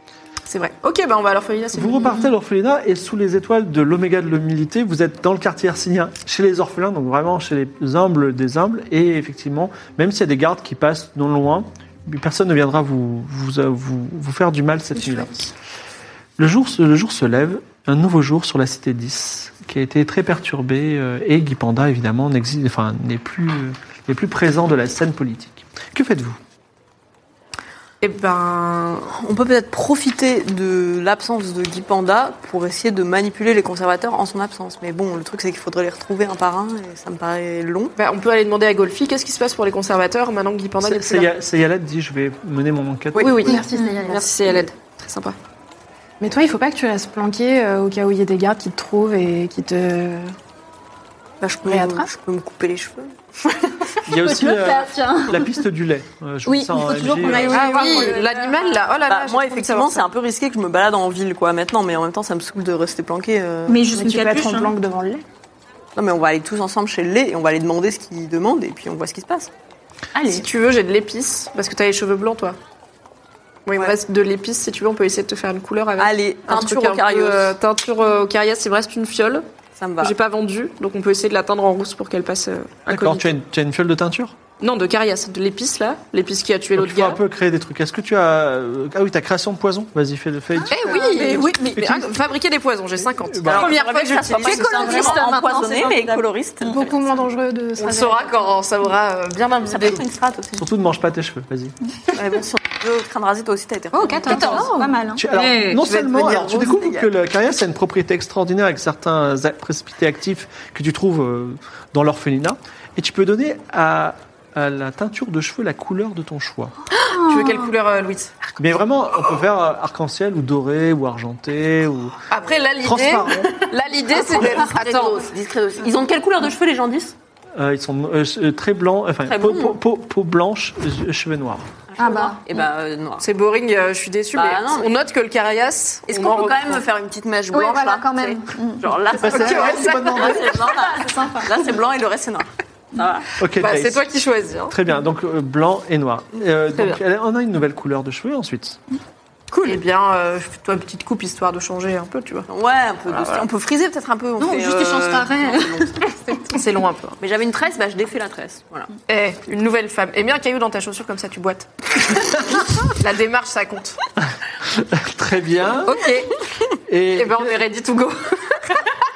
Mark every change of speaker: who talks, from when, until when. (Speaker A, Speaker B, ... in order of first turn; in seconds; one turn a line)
Speaker A: 0.5-2.2
Speaker B: 1.7-15.3
Speaker B: 16.4-26.4
Speaker A: 28.0-29.1
Speaker C: 29.1-38.0
Speaker A: 38.0-41.3
Speaker B: 40.8-43.4
Speaker A: 43.1-45.4
Speaker D: 43.4-44.7
Speaker D: 46.2-50.3
Speaker C: 51.4-53.1
Speaker D: 51.7-52.1
Speaker B: 54.1-57.6
Speaker E: 54.1-55.6
Speaker E: 56.5-58.5
Speaker A: 57.4-60.1
Speaker C: 57.8-58.1
Speaker C: 59.1-63.8
Speaker E: 63.7-64.7
Speaker D: 63.9-65.2
Speaker C: 66.0-69.5
Speaker D: 70.2-70.5
Speaker A: 70.3-72.6
Speaker A: 73.7-79.5
Speaker C: 76.0-77.6
Speaker C: 79.8-80.2
Speaker A: 80.0-83.3
Speaker B: 82.9-84.4
Speaker A: 84.6-87.2
Speaker B: 86.8-91.0
Speaker A: 90.7-95.2
Speaker E: 90.8-91.8
Speaker B: 91.8-92.1
Speaker B: 93.0-93.7
Speaker C: 93.5-97.1
Speaker E: 94.3-96.8
Speaker D: 96.7-98.6
Speaker A: 97.8-100.0
Speaker C: 99.7-100.7
Speaker B: 100.6-101.7
Speaker C: 102.1-104.8
Speaker E: 103.9-105.8
Speaker A: 104.3-104.9
Speaker B: 105.2-116.7
Speaker A: 105.8-106.7
Speaker C: 106.1-107.1
Speaker E: 117.1-117.7
Speaker A: 117.2-118.3
Speaker B: 118.6-122.2
Speaker A: 122.3-125.3
Speaker B: 122.8-123.7
Speaker C: 124.1-127.1
Speaker B: 127.6-131.7
Speaker C: 129.3-129.8
Speaker C: 131.9-133.3
Speaker E: 132.0-132.4
Speaker A: 133.2-136.8
Speaker C: 134.3-134.9
Speaker C: 136.1-143.3
Speaker E: 137.5-141.5
Speaker B: 139.2-140.6
Speaker A: 139.2-140.2
Speaker B: 143.4-144.0
Speaker A: 143.6-144.8
Speaker B: 144.7-148.8
Speaker A: 146.8-147.0
Speaker A: 149.5-152.5
Speaker C: 152.5-156.1
Speaker A: 153.1-153.5
Speaker E: 154.4-155.9
Speaker A: 156.5-157.2
Speaker C: 157.2-158.9
Speaker A: 159.1-164.0
Speaker B: 164.7-166.1
Speaker A: 165.8-166.3
Speaker B: 166.9-167.6
Speaker A: 167.1-168.8